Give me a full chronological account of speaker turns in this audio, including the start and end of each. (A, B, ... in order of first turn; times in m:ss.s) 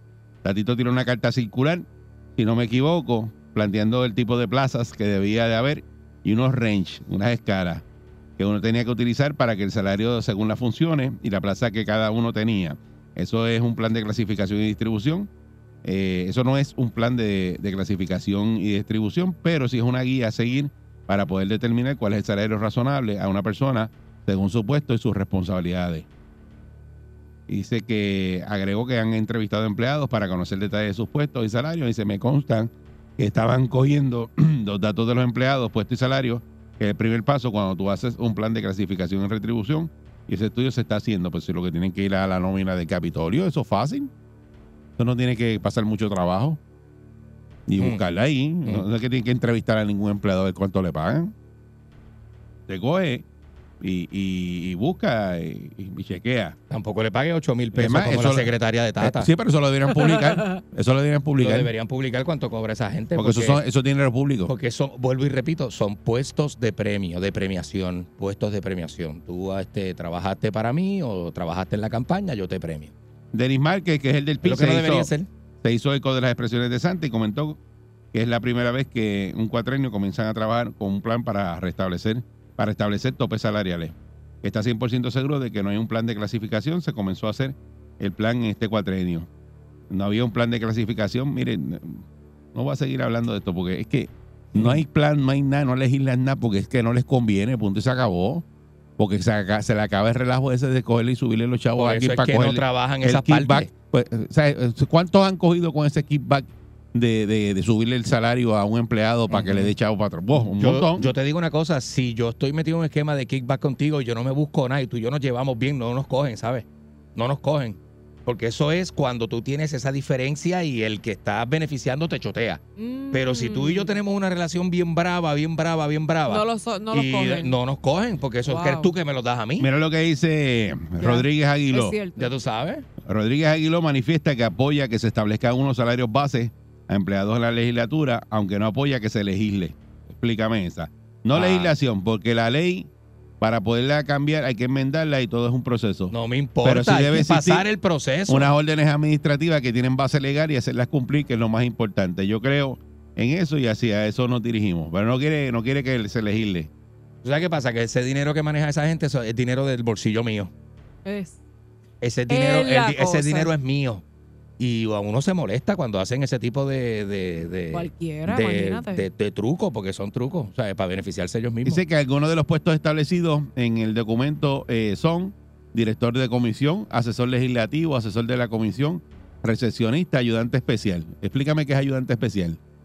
0:00.4-0:07.8 A
0:08.4-0:15.3 A
0:15.8-0:26.0 A
0:27.5-0:44.1 A
0:45.0-0:46.6 A
0:47.7-0:51.3 A
0:47.8-0:48.0 B
0:52.7-0:53.2 A
0:53.8-0:56.6 A
0:56.7-0:59.3 B
0:57.7-1:01.7 A
0:59.9-1:00.6 C
1:01.4-1:03.6 B
1:03.2-1:04.5 A
1:04.5-1:12.9 B
1:13.3-1:15.1 A
1:14.4-1:15.3 B
1:15.6-1:17.6 A
1:18.1-1:29.3 A
1:29.9-1:38.4 A
1:34.5-1:34.8 B
1:39.0-1:51.1 A
1:41.8-1:43.7 B
1:49.3-1:49.7 B
1:50.6-2:09.7 B
2:02.8-2:04.0 C
2:06.3-2:07.6 C
2:08.4-2:08.9 C
2:09.6-2:12.0 A
2:11.0-2:12.3 C
2:12.2-2:12.8 B
2:13.0-2:27.6 A
2:21.3-2:21.7 B
2:26.1-2:28.5 B
2:28.3-2:36.7 A
2:37.2-2:40.5 B
2:41.0-2:41.4 C
2:42.0-2:44.0 B
2:42.3-2:43.5 C
2:44.6-2:51.8 B
2:47.7-2:49.1 C
2:51.6-3:02.6 A